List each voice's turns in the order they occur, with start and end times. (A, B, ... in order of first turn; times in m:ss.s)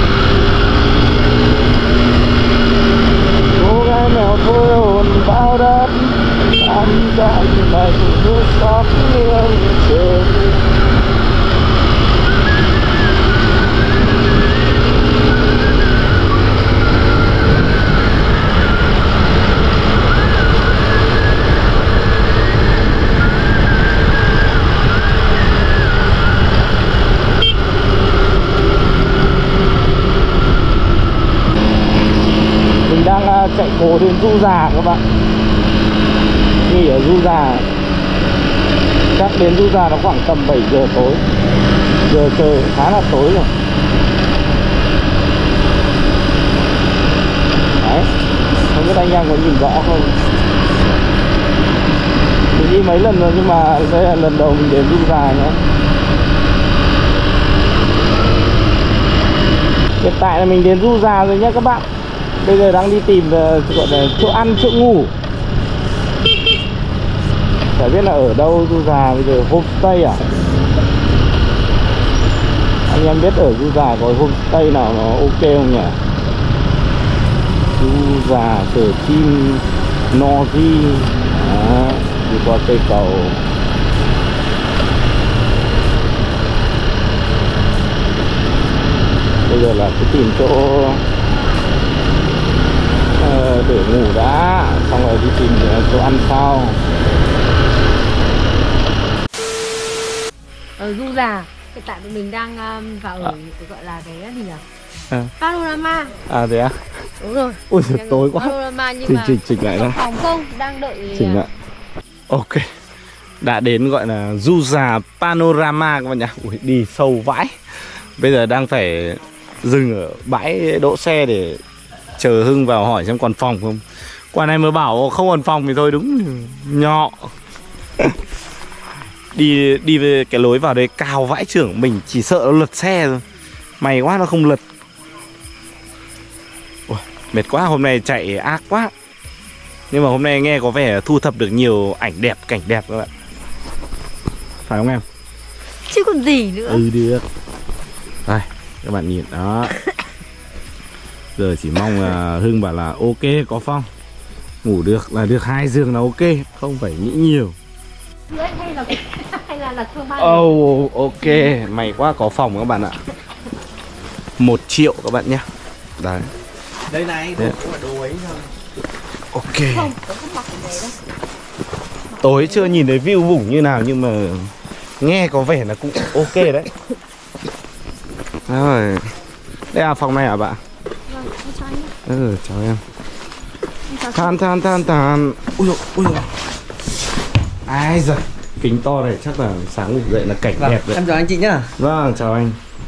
0:03.6-0:10.4 A
0:32.8-0:35.0 A
0:36.6-0:37.7 A
0:39.1-0:41.2 A
0:42.0-0:43.5 A
0:47.8-0:48.1 A
0:48.7-0:50.2 A
0:52.5-0:55.6 A
1:00.0-1:01.8 A
1:02.4-1:05.1 A
1:07.8-1:10.2 A
1:12.9-1:16.0 A
1:17.8-1:23.4 A
1:29.4-1:31.0 A
1:33.2-1:36.8 A
1:40.8-1:44.6 B
1:45.4-1:46.1 B
1:46.3-1:46.9 A
1:47.2-1:51.5 B
1:47.7-1:50.0 A
1:51.1-1:51.5 A
1:52.3-1:52.6 A
1:53.4-1:57.6 A
1:58.2-2:01.6 A
2:02.2-2:07.3 A
2:09.3-2:13.2 A
2:13.8-2:14.6 A
2:16.9-2:18.9 A
2:19.9-2:23.1 A
2:24.6-2:25.0 A
2:25.9-2:26.8 B
2:26.6-2:27.2 A
2:28.2-2:29.7 A
2:31.4-2:33.9 A
2:34.6-2:37.6 A
2:38.3-2:41.6 B
2:40.2-2:43.0 A
2:44.4-2:45.4 A
2:46.0-2:46.3 A
2:46.9-2:48.5 C
2:49.3-2:49.9 A
2:49.7-2:51.0 B
2:52.2-2:52.8 B
2:52.2-2:56.7 A
2:58.5-2:59.1 A
2:59.7-3:00.6 A
3:01.1-3:01.9 B
3:02.0-3:02.8 A
3:03.9-3:04.5 B
3:04.1-3:06.3 A
3:07.6-3:11.0 A
3:10.6-3:11.7 C
3:11.8-3:12.6 A